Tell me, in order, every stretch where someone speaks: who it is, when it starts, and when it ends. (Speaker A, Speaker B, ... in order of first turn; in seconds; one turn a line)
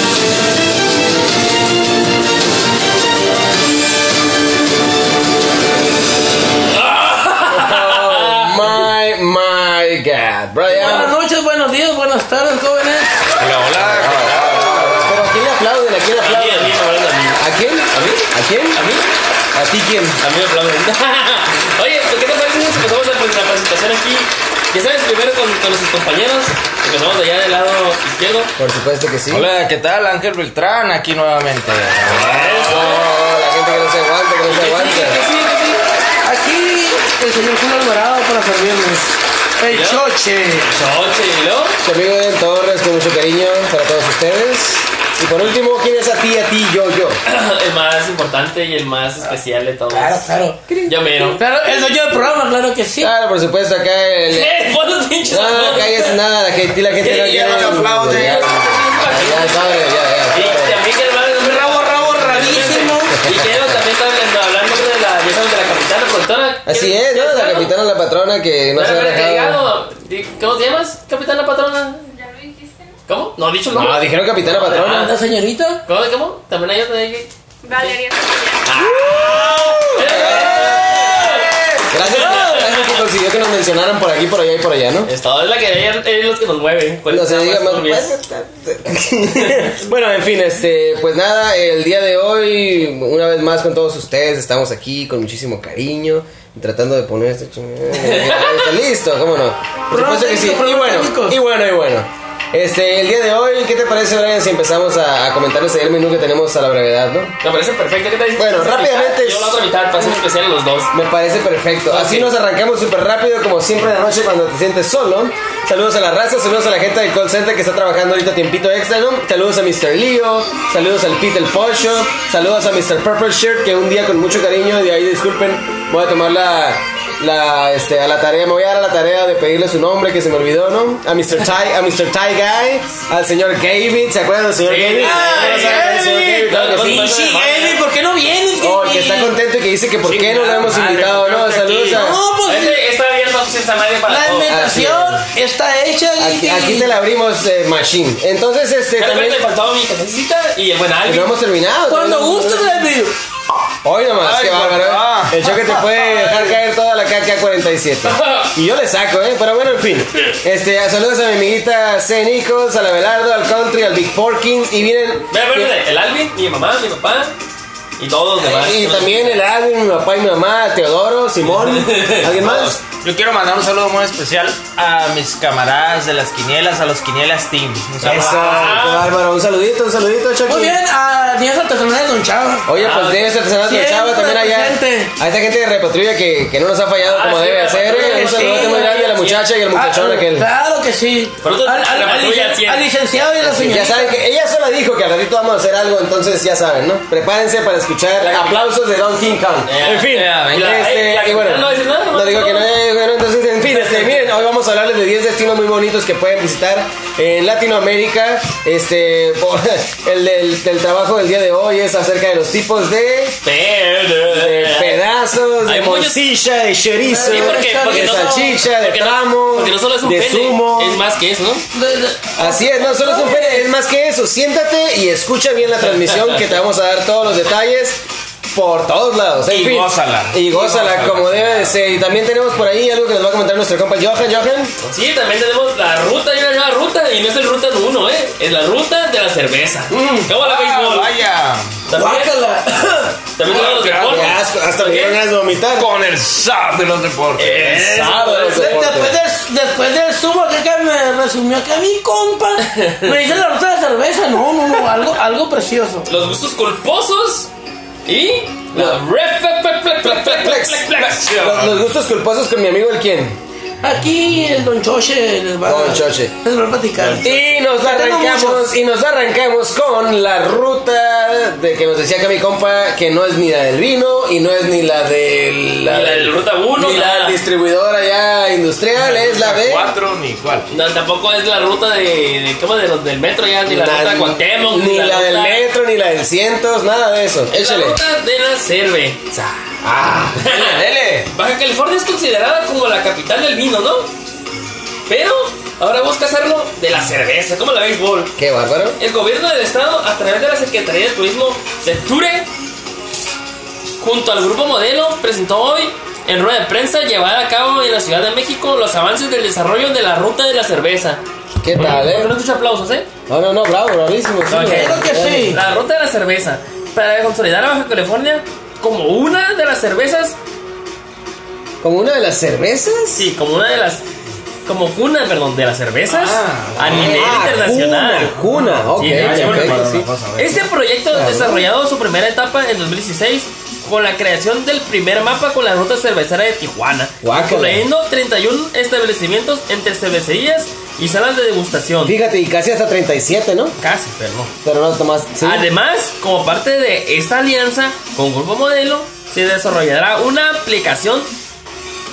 Speaker A: 6.7-8.7
Speaker B: 7.5-11.1
Speaker C: 10.7-13.2
Speaker D: 13.4-15.2
Speaker B: 13.8-16.8
Speaker A: 16.2-19.1
Speaker B: 17.4-18.8
Speaker B: 19.5-20.2
Speaker A: 20.2-28.5
Speaker B: 28.6-29.5
Speaker D: 29.3-32.9
Speaker A: 32.1-33.1
Speaker B: 32.6-35.2
Speaker A: 34.5-35.8
Speaker C: 36.2-40.7
Speaker A: 39.7-40.0
Speaker A: 40.7-41.8
Speaker B: 41.8-47.2
Speaker A: 47.3-51.4
Speaker C: 49.9-50.6
Speaker C: 51.1-53.1
Speaker B: 53.0-54.7
Speaker A: 54.3-56.2
Speaker B: 55.3-60.8
Speaker D: 57.0-58.7
Speaker A: 57.0-67.7
Speaker C: 61.5-63.2
Speaker B: 63.1-63.8
Speaker B: 66.7-69.7
Speaker A: 68.8-72.0
Speaker E: 72.0-73.0
Speaker A: 73.1-75.1
Speaker B: 73.7-75.1
Speaker C: 74.8-75.8
Speaker A: 75.9-77.9
Speaker E: 77.6-78.8
Speaker A: 78.7-83.0
Speaker B: 78.8-85.1
Speaker C: 80.0-81.5
Speaker A: 85.1-88.1
Speaker B: 87.1-107.3
Speaker A: 97.9-98.8
Speaker C: 99.9-101.4
Speaker A: 107.4-110.9
Speaker B: 108.4-109.6
Speaker B: 110.9-137.0
Speaker A: 111.9-112.3
Speaker A: 134.6-137.8
Speaker C: 135.0-139.4
Speaker B: 138.6-142.2
Speaker A: 140.0-144.6
Speaker C: 141.9-142.8
Speaker C: 144.1-146.9
Speaker B: 144.5-145.3
Speaker B: 146.2-149.4
Speaker A: 149.0-151.3
Speaker B: 151.1-152.9
Speaker C: 151.9-153.2
Speaker B: 153.8-165.8
Speaker D: 154.2-155.5
Speaker A: 158.1-158.5
Speaker A: 165.3-167.3
Speaker A: 168.0-169.4
Speaker B: 168.4-172.8
Speaker A: 171.6-172.3
Speaker D: 172.3-178.8
Speaker B: 178.0-180.8
Speaker A: 178.1-179.1
Speaker C: 180.5-182.7
Speaker B: 182.7-190.5
Speaker A: 182.8-183.3
Speaker C: 183.6-185.1
Speaker A: 187.0-189.5
Speaker C: 188.0-189.0
Speaker C: 189.7-194.2
Speaker A: 191.4-192.9
Speaker B: 193.4-213.4
Speaker A: 198.2-198.6
Speaker A: 199.7-202.7
Speaker A: 203.7-204.2
Speaker A: 213.4-215.0
Speaker B: 214.3-221.0
Speaker A: 215.7-216.2
Speaker C: 217.1-218.5
Speaker A: 217.2-221.7
Speaker C: 221.7-223.7
Speaker B: 222.4-234.7
Speaker A: 226.0-226.4
Speaker D: 229.5-231.8
Speaker A: 234.8-241.1
Speaker B: 239.9-240.3
Speaker D: 240.4-241.8
Speaker A: 241.9-242.5
Speaker B: 241.9-243.1
Speaker A: 243.3-245.2
Speaker D: 243.4-244.4
Speaker B: 244.1-245.9
Speaker D: 245.7-248.3
Speaker A: 247.4-248.7
Speaker B: 248.0-249.1
Speaker C: 248.4-256.1
Speaker A: 252.6-253.2
Speaker A: 256.1-257.5
Speaker A: 258.1-261.5
Speaker B: 258.7-259.0
Speaker B: 260.0-263.4
Speaker D: 260.9-261.8
Speaker C: 263.8-268.7
Speaker B: 265.6-266.3
Speaker B: 267.2-279.9
Speaker A: 275.9-277.4
Speaker D: 279.0-280.7
Speaker A: 280.7-285.6
Speaker B: 283.7-288.0
Speaker A: 287.5-289.5
Speaker D: 289.8-291.3
Speaker A: 290.4-294.1
Speaker A: 295.1-298.3
Speaker B: 298.4-299.0
Speaker A: 299.0-302.5
Speaker A: 304.0-311.2
Speaker B: 311.6-312.3
Speaker A: 311.8-313.1
Speaker B: 313.3-315.6
Speaker A: 314.5-320.4
Speaker C: 314.6-315.6
Speaker B: 321.8-323.3
Speaker A: 323.2-324.1
Speaker A: 324.7-328.4
Speaker D: 326.1-327.7
Speaker B: 326.8-330.1
Speaker D: 328.5-330.7
Speaker A: 329.0-342.1
Speaker B: 331.1-331.7
Speaker B: 337.2-337.8
Speaker B: 342.1-343.8
Speaker A: 343.8-344.5
Speaker B: 344.6-345.7
Speaker A: 345.4-351.3